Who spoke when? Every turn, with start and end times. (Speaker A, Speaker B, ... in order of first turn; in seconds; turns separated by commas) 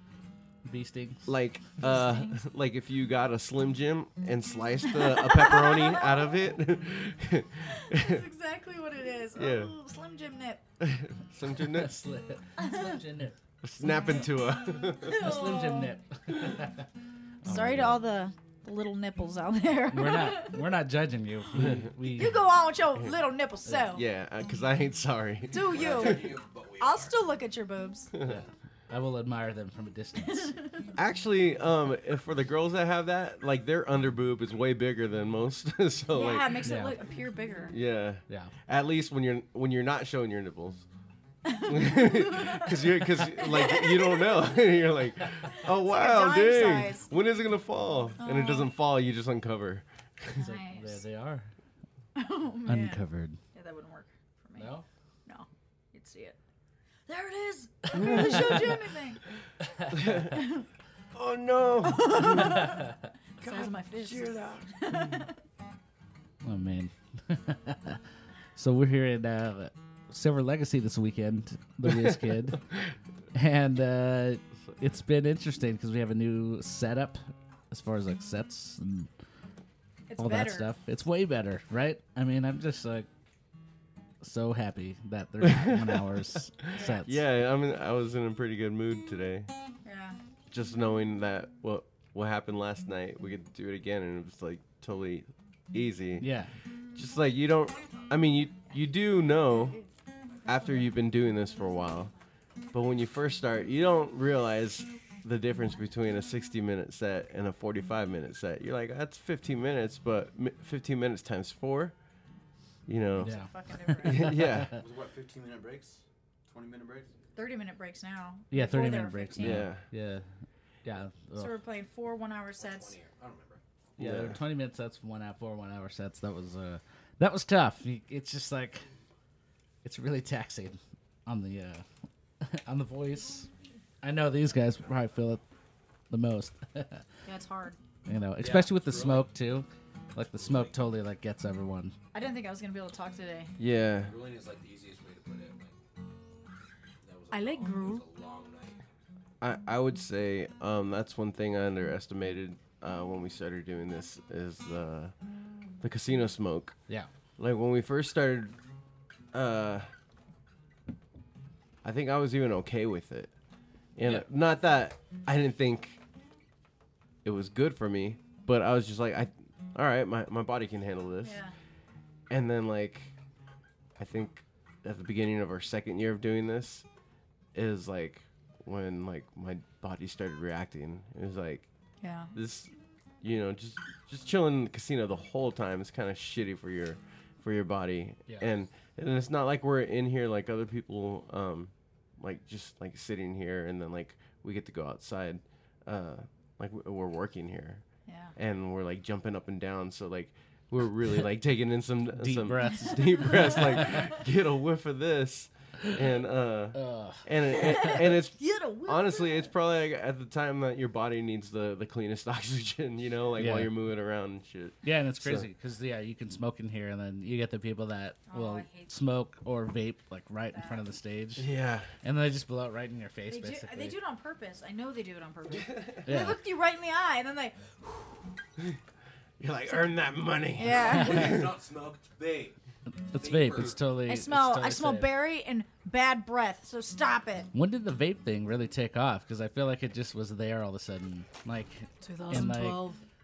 Speaker A: 0.7-1.4, Speaker B: 1.3-8.2, Speaker C: 1.8-2.4, Speaker C: 4.9-6.4, Speaker C: 7.7-10.6, Speaker B: 9.3-9.7, Speaker B: 10.8-12.0, Speaker A: 11.6-13.4, Speaker C: 12.6-12.8, Speaker B: 13.6-15.2, Speaker C: 15.0-15.9, Speaker A: 15.1-16.9, Speaker A: 17.4-18.0, Speaker C: 17.4-20.6, Speaker A: 19.9-22.4, Speaker B: 21.5-21.9, Speaker C: 22.1-24.0, Speaker B: 23.9-26.1, Speaker C: 25.5-26.2, Speaker D: 25.6-27.2, Speaker C: 26.8-28.1, Speaker A: 28.2-30.6, Speaker C: 30.2-30.9, Speaker B: 30.9-36.6, Speaker C: 36.1-37.8, Speaker A: 36.6-37.0, Speaker B: 37.7-40.9, Speaker C: 41.4-44.5, Speaker B: 41.6-50.4, Speaker C: 45.5-47.1, Speaker C: 48.2-48.7, Speaker C: 50.3-51.0, Speaker A: 50.4-51.5, Speaker C: 52.1-53.0, Speaker A: 52.6-53.4, Speaker C: 53.5-54.7, Speaker A: 54.6-54.9, Speaker C: 55.2-56.4, Speaker C: 57.0-59.2, Speaker B: 57.9-58.6, Speaker A: 58.0-58.8, Speaker A: 59.7-60.1, Speaker B: 59.9-60.3, Speaker C: 60.1-60.6, Speaker B: 61.1-62.8, Speaker C: 61.8-62.9, Speaker B: 63.4-65.2, Speaker C: 63.4-65.3, Speaker A: 66.4-68.0, Speaker A: 68.5-72.6, Speaker A: 73.3-79.1, Speaker C: 80.1-80.7, Speaker A: 80.2-83.1, Speaker A: 84.2-87.2, Speaker B: 85.4-89.5, Speaker C: 86.7-87.0, Speaker C: 89.8-90.2, Speaker B: 90.5-96.3, Speaker A: 96.2-96.5, Speaker B: 96.9-99.8, Speaker B: 100.4-102.1, Speaker B: 102.7-111.9, Speaker B: 112.9-113.3, Speaker C: 113.2-114.3, Speaker A: 113.2-114.8, Speaker B: 114.0-114.7, Speaker E: 114.6-117.1, Speaker C: 117.3-119.7, Speaker A: 118.5-120.2, Speaker B: 119.4-119.8, Speaker A: 120.8-121.5, Speaker C: 121.3-122.9, Speaker D: 122.6-123.6, Speaker B: 124.0-124.4, Speaker A: 124.0-128.8, Speaker A: 129.8-131.8, Speaker A: 132.4-133.5, Speaker A: 134.0-135.4, Speaker A: 136.1-137.1, Speaker C: 137.2-137.8, Speaker A: 138.1-141.9, Speaker D: 138.4-139.3, Speaker D: 140.3-140.7, Speaker C: 142.1-143.5, Speaker B: 143.6-144.1, Speaker D: 144.0-145.8, Speaker D: 147.0-148.8, Speaker C: 147.3-148.0, Speaker B: 149.4-155.1, Speaker B: 155.8-156.8, Speaker B: 157.4-158.6, Speaker B: 159.3-159.9, Speaker B: 161.8-163.3, Speaker B: 163.9-166.0, Speaker B: 167.2-171.4, Speaker C: 171.2-171.5, Speaker B: 172.3-173.1, Speaker B: 174.0-176.8, Speaker B: 177.5-181.7, Speaker C: 182.0-182.3, Speaker B: 182.3-182.7, Speaker B: 183.2-197.8, Speaker C: 198.1-198.3, Speaker B: 198.3-215.5, Speaker A: 202.1-204.2, Speaker A: 206.7-207.3, Speaker C: 207.6-209.5, Speaker A: 213.4-213.7, Speaker A: 214.8-221.5, Speaker C: 218.3-218.9, Speaker C: 220.5-220.8, Speaker B: 221.4-221.9, Speaker A: 222.0-223.9, Speaker C: 223.3-228.2, Speaker B: 225.6-226.0, Speaker A: 226.0-226.4, Speaker B: 229.4-231.5, Speaker C: 230.6-231.4, Speaker D: 230.7-232.6, Speaker A: 233.1-235.1, Speaker D: 233.1-233.8, Speaker C: 234.0-237.5, Speaker A: 237.5-242.8, Speaker C: 242.0-243.0